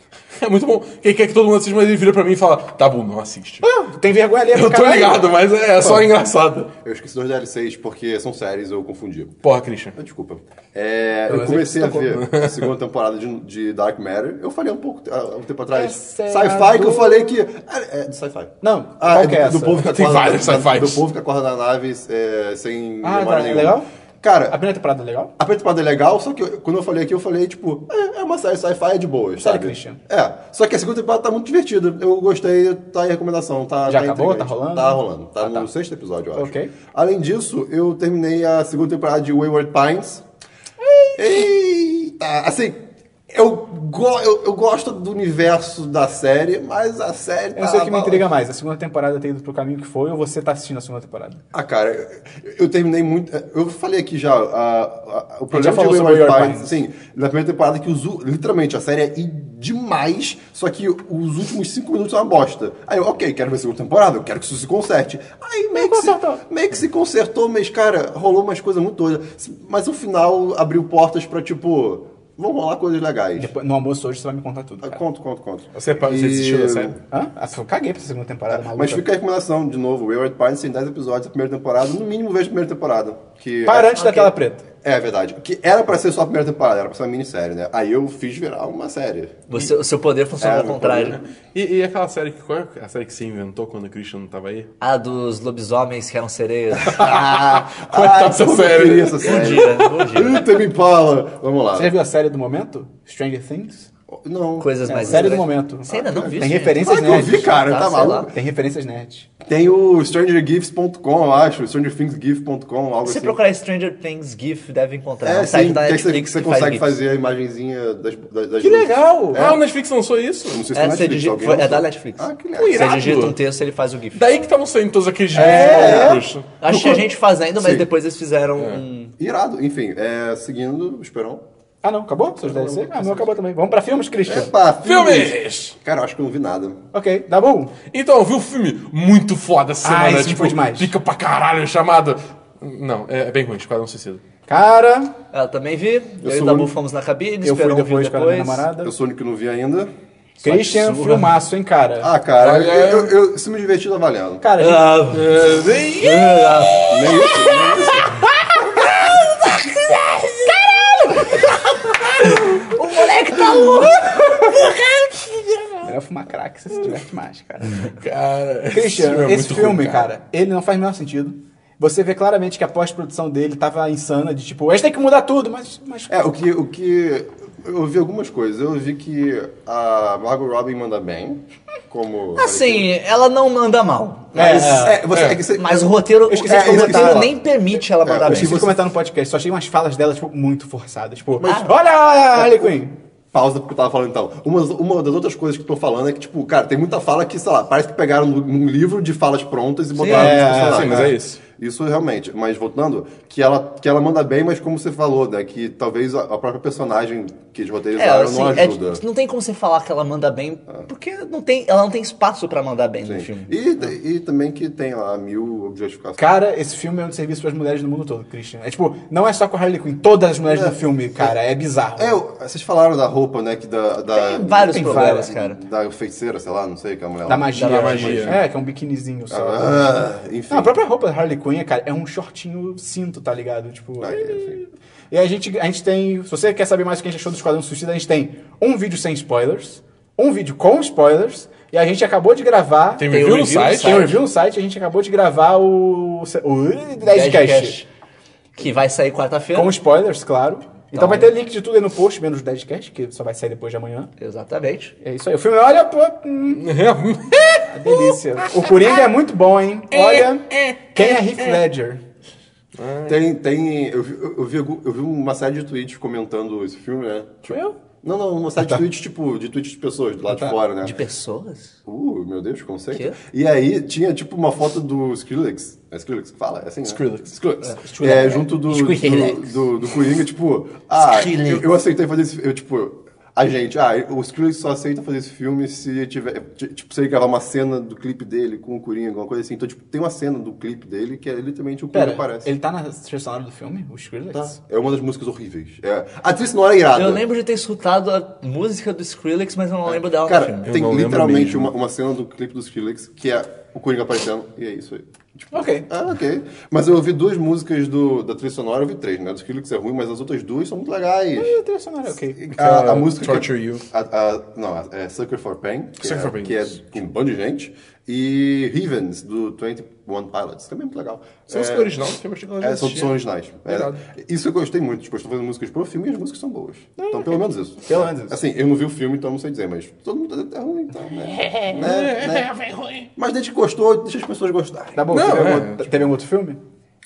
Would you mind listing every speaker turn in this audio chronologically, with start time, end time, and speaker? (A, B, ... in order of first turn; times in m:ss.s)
0:00.4-0:03.6 A
0:03.6-0:05.3 B
0:04.5-0:06.7 A
0:06.8-0:09.4 C
0:09.4-0:09.9 A
0:09.9-0:24.6 C
0:11.3-0:12.2 B
0:12.1-0:12.7 A
0:15.7-0:17.4 B
0:18.6-0:19.8 B
0:19.8-0:21.0 A
0:23.0-0:23.9 B
0:24.5-0:25.3 B
0:25.4-0:40.2 C
0:29.4-0:30.0 B
0:33.9-0:35.6 B
0:36.4-0:36.7 B
0:40.8-0:41.3 B
0:41.1-0:48.3 C
0:47.5-0:51.4 B
0:51.5-1:13.5 C
0:55.5-0:56.8 B
1:05.7-1:06.4 B
1:13.4-1:15.0 B
1:14.8-1:17.0 C
1:15.7-1:16.9 A
1:17.1-1:19.0 B
1:18.5-1:24.0 C
1:23.6-1:24.6 B
1:23.9-1:24.3 D
1:24.8-1:29.6 C
1:29.5-1:31.2 D
1:30.4-1:31.3 C
1:31.5-1:34.7 A
1:34.8-1:37.0 D
1:36.8-1:41.9 C
1:36.9-1:40.1 A
1:39.2-1:40.5 D
1:41.7-1:43.9 B
1:44.1-1:48.3 C
1:44.6-1:48.3 D
1:44.8-1:47.5 B
1:48.2-1:49.3 B
1:49.4-1:53.4 C
1:53.0-1:56.9 D
1:55.2-1:59.6 C
1:58.6-1:59.5 B
1:59.3-2:00.7 A
2:00.5-2:03.2 C
2:00.7-2:04.3 D
2:02.5-2:03.4 A
2:04.1-2:06.5 A
2:05.3-2:07.8 C
2:05.3-2:06.2 B
2:06.6-2:09.1 D
2:09.2-2:11.4 C
2:11.8-2:14.5 B
2:12.4-2:13.3 C
2:14.2-2:16.8 C
2:14.8-2:15.8 A
2:16.9-2:17.7 B
2:17.9-2:24.2 A
2:19.8-2:20.9 B
2:24.5-2:25.1 B
2:25.3-2:28.7 D
2:26.2-2:26.7 C
2:27.4-2:28.9 B
2:28.8-2:29.9 C
2:30.4-2:31.3 D
2:30.4-2:32.1 B
2:32.0-2:34.5 C
2:32.4-2:33.1 A
2:34.4-2:35.0 B
2:34.6-2:35.4 D
2:35.1-2:36.7 A
2:36.0-2:45.9 D
2:36.9-2:38.2 C
2:45.8-2:47.9 B
2:47.8-2:50.1 A
2:48.7-2:56.2 B
2:56.1-3:02.9 C
3:02.3-3:08.7 D
3:04.3-3:05.9 C
3:04.3-3:05.1 B
3:05.1-3:05.4 A
3:06.3-3:07.3 B
3:06.4-3:07.3 C
3:08.0-3:08.8 C
3:08.3-3:12.9 B
3:11.4-3:11.7 D
3:12.3-3:12.8 C
3:13.3-3:29.0 C
3:19.9-3:20.3 D
3:20.0-3:21.4 A
3:20.1-3:21.1 B
3:28.0-3:33.5 D
3:33.0-3:36.3 C
3:36.2-3:42.2 B
3:40.4-3:41.3 C
3:42.0-3:48.1 C
3:44.1-3:45.6 D
3:44.7-3:45.2 B
3:47.3-4:03.1 B
3:47.5-3:48.3 D
3:47.6-3:48.4 A
3:49.3-3:50.7 C
3:54.0-3:54.6 C
4:03.0-4:04.2 A
4:03.1-4:04.2 D
4:03.8-4:07.8 B
4:07.0-4:07.9 D
4:08.6-4:09.8 D
4:09.5-4:14.1 B
4:10.9-4:11.3 D
4:14.2-4:14.9 D
4:15.0-4:16.6 B
4:16.5-4:18.9 A
4:17.7-4:22.0 B
4:19.9-4:21.6 A
4:22.8-4:23.2 A
4:23.1-4:31.0 C
4:27.5-4:27.8 B
4:30.3-4:30.6 B
4:30.8-4:31.7 D
4:31.8-4:37.0 C
4:32.9-4:33.2 D
4:36.8-4:37.7 A
4:37.6-4:39.6 D
4:38.0-4:52.5 C
4:41.0-4:41.6 D
4:51.9-4:54.6 B
4:54.3-4:57.2 C
4:56.9-5:00.8 D
4:59.8-5:11.6 C
5:00.6-5:01.7 A
5:05.5-5:05.9 B
5:11.4-5:12.4 B
5:12.3-5:21.9 C
5:12.5-5:13.8 A
5:16.0-5:16.8 A
5:21.5-5:24.0 A
5:22.6-5:32.5 C
5:27.0-5:28.4 B
5:31.4-5:33.1 A
5:33.2-5:35.2 C
5:35.0-5:36.6 B
5:35.1-5:36.1 A